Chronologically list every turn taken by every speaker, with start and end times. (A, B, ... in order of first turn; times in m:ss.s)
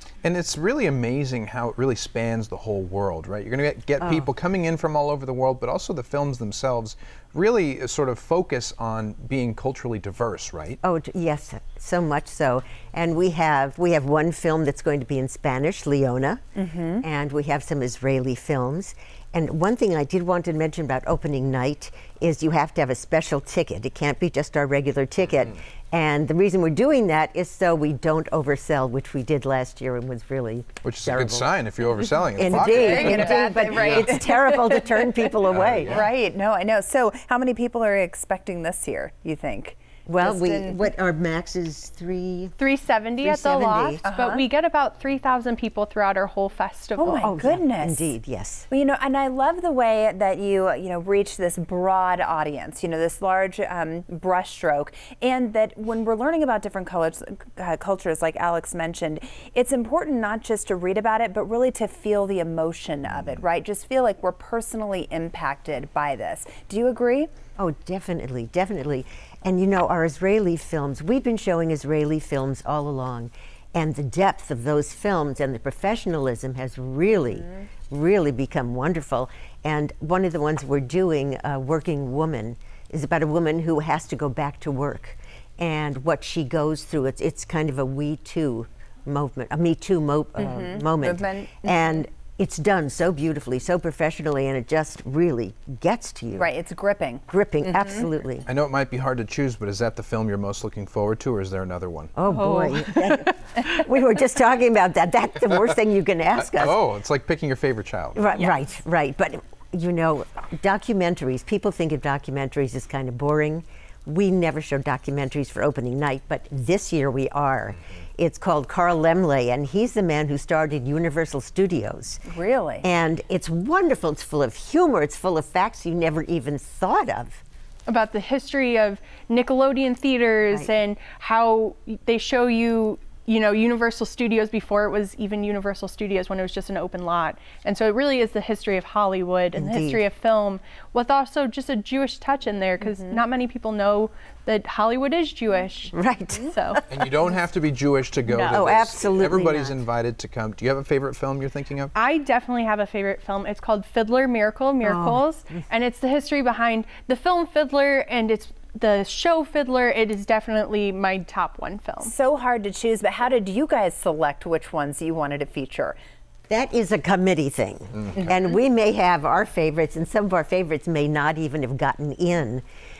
0:00.2-0:10.8 A
0:04.0-0:04.3 B
0:10.8-0:16.4 B
0:16.6-0:17.0 C
0:17.0-0:31.5 B
0:30.8-0:34.0 A
0:32.4-0:36.1 B
0:32.4-0:35.0 C
0:32.8-0:33.7 D
0:35.5-0:36.0 A
0:35.9-0:40.9 C
0:40.1-0:42.6 B
0:42.6-0:47.3 D
0:43.2-0:44.0 B
0:44.0-0:44.4 C
0:47.0-0:48.2 C
0:47.2-0:48.7 B
0:48.7-1:07.3 C
1:07.6-1:36.5 B
1:30.4-1:31.9 C
1:36.4-1:38.1 C
1:37.3-1:38.5 B
1:38.5-1:42.2 A
1:42.2-1:46.8 B
1:42.3-1:43.3 D
1:46.4-1:48.3 A
1:48.2-2:02.3 B
2:02.3-2:02.9 C
2:02.8-2:07.4 B
2:07.9-2:25.9 D
2:19.6-2:20.0 B
2:22.8-2:23.2 C
2:25.9-2:26.8 B
2:26.5-2:26.8 D
2:26.9-2:31.9 A
2:28.3-2:29.8 B
2:31.9-2:42.1 D
2:34.8-2:35.2 B
2:42.0-2:46.0 C
2:46.5-2:52.6 B